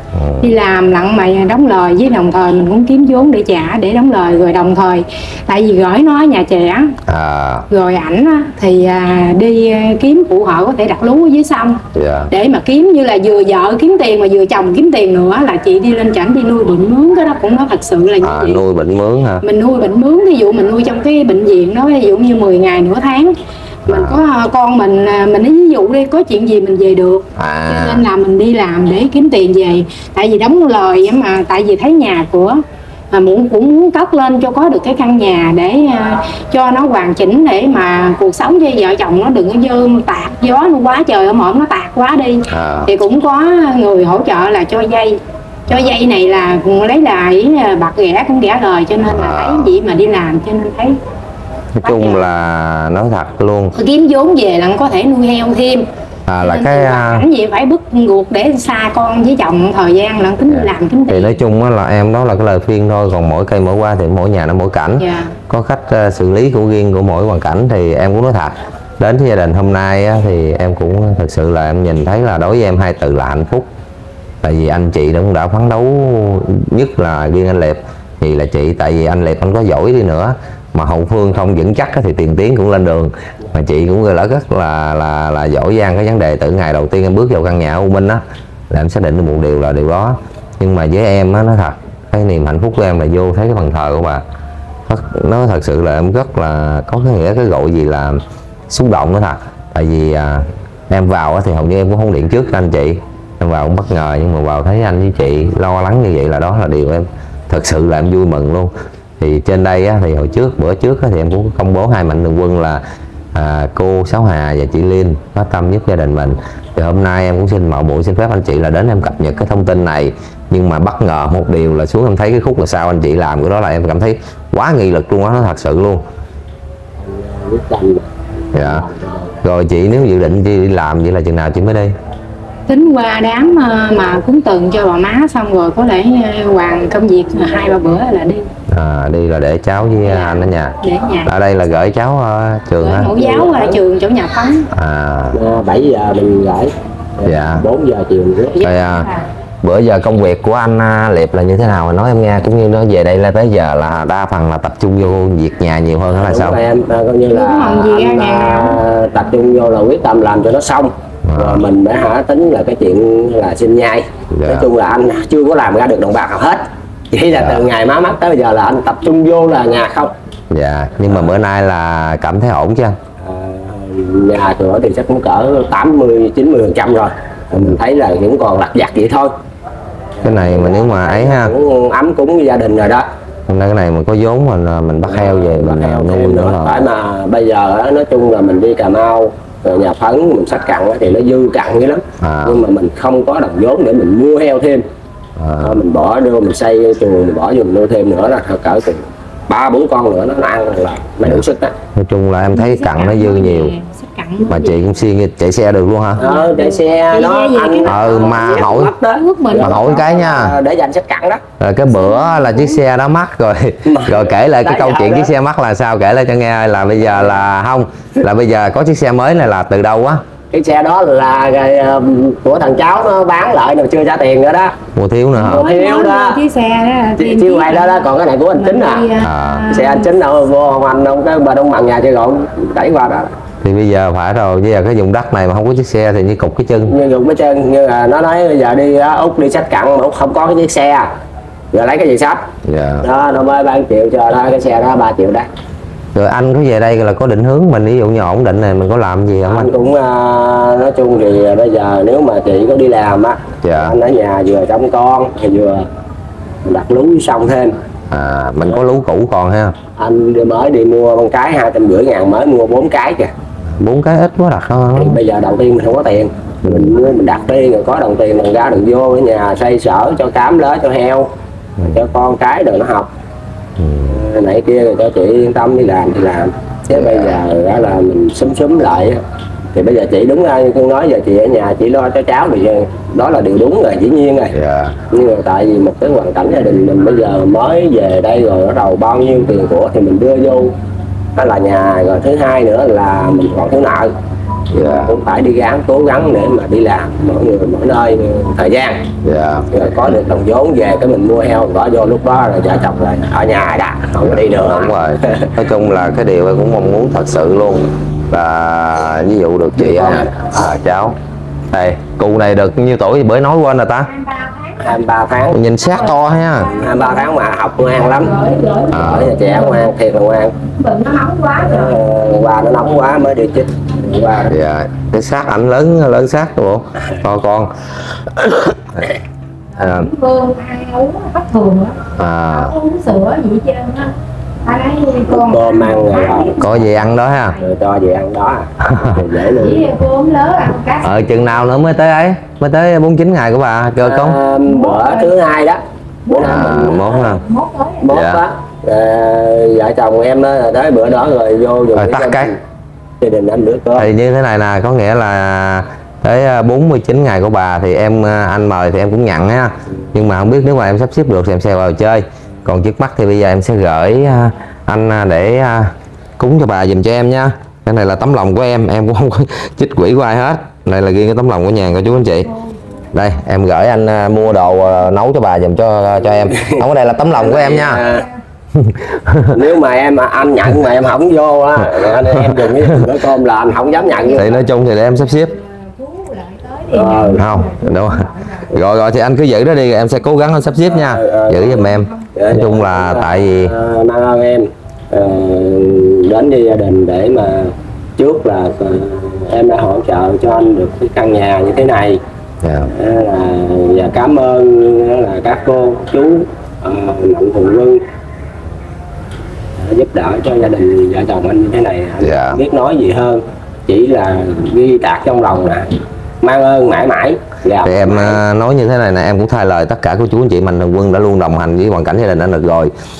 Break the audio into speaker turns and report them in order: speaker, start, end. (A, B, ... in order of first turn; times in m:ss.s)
0:00.1-0:00.5 A
0:00.4-0:06.9 B
0:07.1-0:07.7 A
0:07.7-0:18.6 B
0:11.9-0:12.3 A
0:18.2-0:19.4 A
0:19.4-0:23.3 B
0:23.9-0:24.2 A
0:23.9-0:32.6 B
0:27.4-0:28.0 A
0:33.1-0:51.0 B
0:42.5-0:42.9 A
0:49.0-0:49.7 A
0:51.8-0:53.7 A
0:51.8-0:52.3 B
0:53.8-0:55.9 B
0:56.3-0:57.2 A
0:56.4-1:01.3 B
1:00.5-1:13.7 A
1:05.0-1:05.3 B
1:14.4-1:34.2 A
1:34.9-1:52.8 A
1:53.3-2:06.0 A
2:07.0-2:09.3 C
2:08.5-2:08.8 A
2:09.4-2:11.9 A
2:12.7-2:18.4 B
2:18.7-2:23.1 A
2:20.0-2:21.3 B
2:22.8-2:24.7 B
2:23.2-2:23.8 C
2:24.7-2:25.4 A
2:25.3-2:28.6 C
2:27.2-2:27.6 A
2:28.6-2:29.2 B
2:28.6-2:29.1 A
2:29.6-2:36.6 A
2:36.2-2:50.1 C
2:37.3-2:38.8 B
2:41.2-2:41.7 A
2:44.3-2:44.7 A
2:47.3-2:47.7 A
2:50.5-2:53.0 A
2:53.2-2:59.3 C
3:00.2-3:03.1 C
3:00.2-3:01.5 A
3:03.5-3:06.9 A
3:05.1-3:14.8 C
3:12.2-3:12.6 A
3:15.4-3:15.8 A
3:15.6-3:21.7 C
3:22.0-3:23.7 A
3:22.5-3:24.8 B
3:24.5-3:26.2 A
3:26.2-3:30.0 B
3:26.2-3:31.4 C
3:27.8-3:28.9 A
3:29.6-3:30.5 A
3:31.6-3:40.2 A
3:31.9-3:32.7 B
3:33.8-3:35.3 C
3:40.5-3:44.7 C
3:44.9-3:45.7 A
3:45.3-3:50.1 B
3:45.5-3:46.4 C
3:47.2-3:49.1 C
3:49.2-3:49.7 A
3:49.7-3:53.3 C
3:53.6-3:56.9 A
3:56.9-4:01.1 C
4:01.7-4:02.4 C
4:02.6-4:03.1 A
4:03.0-4:05.5 C
4:06.2-4:09.7 A
4:09.4-4:15.9 C
4:13.6-4:14.0 A
4:16.6-4:17.8 C
4:18.1-4:19.8 A
4:20.0-4:23.3 C
4:23.8-4:25.2 A
4:25.0-4:31.3 C
4:26.7-4:26.9 A
4:31.8-4:33.1 C
4:33.8-4:34.2 A
4:34.1-4:39.2 C
4:36.9-4:37.3 A
4:39.7-4:44.6 C
4:44.5-4:45.0 A
4:45.1-4:50.7 C
4:51.4-4:54.1 C
4:54.7-4:55.1 A
4:54.7-4:59.0 C
4:59.2-4:59.7 A
4:59.7-5:05.5 C
5:04.2-5:11.2 A
5:09.8-5:10.3 C
5:11.7-5:14.1 A
5:14.1-5:14.8 B
5:14.8-5:15.6 C
5:15.5-5:16.7 A
5:15.9-5:17.3 B
5:16.7-5:18.4 C
5:17.9-5:19.9 B
5:18.9-5:19.3 A
5:18.9-5:20.5 C
5:20.7-5:22.0 B
5:21.6-5:24.6 C
5:24.5-5:29.1 A
5:29.8-5:32.0 B
5:29.8-5:30.1 A
5:32.2-5:32.7 A
5:32.5-5:34.1 B
5:34.7-5:37.6 B
5:35.3-5:36.6 C
5:36.6-5:37.6 A
5:37.6-5:39.9 C
5:38.8-5:39.2 A
5:39.6-5:41.3 B
5:41.0-5:44.4 A
5:44.0-5:46.9 C
5:44.6-5:45.3 B
5:46.2-5:48.1 B
5:46.4-5:47.4 A
5:48.0-5:52.6 C
5:48.1-5:48.4 A
5:51.9-5:52.5 A
5:53.2-5:54.1 C
5:54.0-6:12.5 A
6:13.1-6:18.0 A
6:16.6-6:16.8 C
6:17.3-6:18.2 C
6:18.7-6:19.6 A
6:19.5-6:24.5 C
6:22.3-6:23.1 A
6:24.3-6:25.5 A
6:25.8-6:28.6 B
6:26.9-6:27.4 C
6:27.3-6:33.7 A
6:30.9-6:42.2 C
6:42.6-6:42.9 A
6:42.9-6:48.0 C
6:49.8-6:58.4 C
6:52.2-6:52.6 A
6:57.8-7:02.9 A